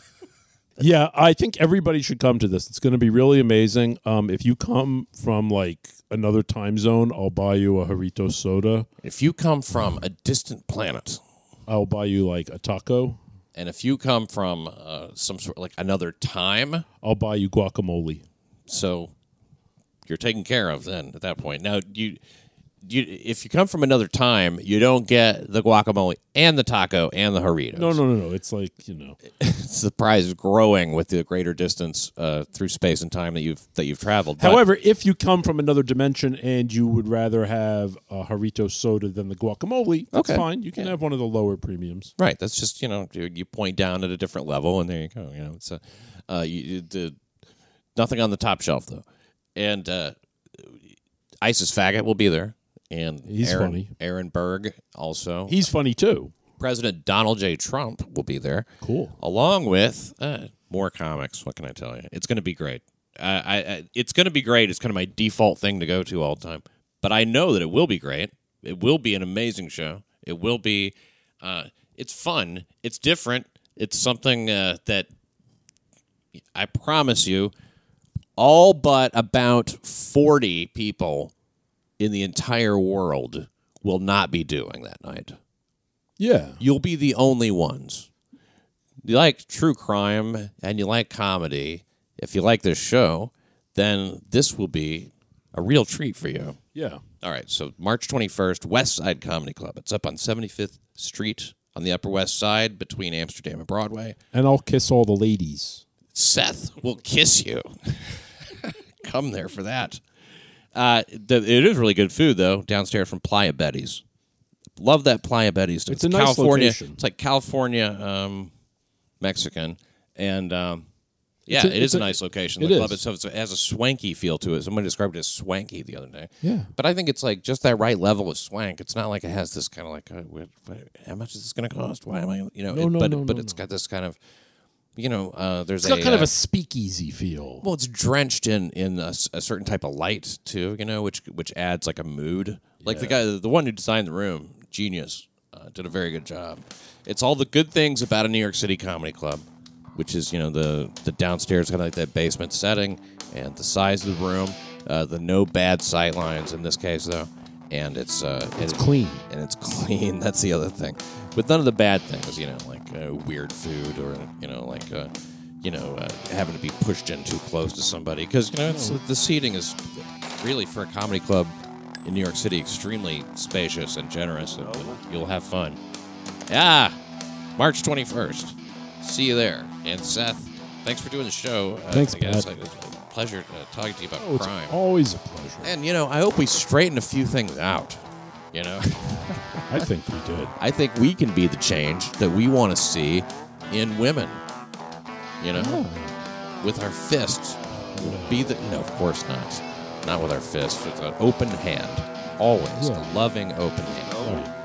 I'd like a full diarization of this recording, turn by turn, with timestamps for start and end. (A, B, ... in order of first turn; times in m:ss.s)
0:00.8-0:08.9 A
0:09.0-0:11.2 B
0:11.7-0:13.2 A
0:13.5-0:16.8 B
0:17.0-0:18.2 A
0:18.7-0:19.1 B
0:20.1-0:22.2 B
0:22.8-0:28.0 B
0:27.7-0:29.2 A
0:29.3-0:34.6 B
0:34.4-0:42.1 A
0:40.1-0:40.9 B
0:42.2-0:47.2 B
0:48.0-0:49.0 B
0:49.6-0:50.8 B
0:51.4-0:55.6 B
0:53.3-0:53.9 A
0:55.5-0:56.3 A
0:56.6-0:58.7 B
0:58.8-0:59.2 A
0:59.2-1:15.1 B
1:16.5-1:17.5 B
1:18.4-1:21.3 B
1:22.0-1:25.4 B
1:26.2-1:26.6 A
1:26.6-1:28.1 B
1:29.0-1:36.6 B
1:36.7-1:37.0 A
1:37.2-1:44.2 B
1:44.3-1:45.8 A
1:46.1-1:50.0 B
1:50.7-1:54.0 B
1:54.8-1:58.5 B
1:55.9-1:57.0 A
1:59.2-2:00.8 B
2:01.5-2:14.2 B
2:01.5-2:03.0 A
2:06.4-2:06.7 A
2:12.7-2:13.6 A
2:15.0-2:16.3 B
2:15.8-2:17.6 A
2:17.6-2:45.1 B
2:22.8-2:23.2 A
2:38.6-2:39.2 A
2:45.6-2:55.8 B
2:48.7-2:49.0 A
2:56.5-2:57.0 B
2:57.6-3:04.7 B
3:01.9-3:02.5 A
3:04.2-3:05.7 A
3:05.6-3:08.0 B
3:08.5-3:09.7 B
3:09.7-3:10.5 A
3:10.6-3:14.4 B
3:15.4-3:15.8 B
3:15.5-3:16.2 A
3:16.6-3:24.3 B
3:17.9-3:18.4 A
3:22.7-3:23.2 A
3:24.2-3:24.5 A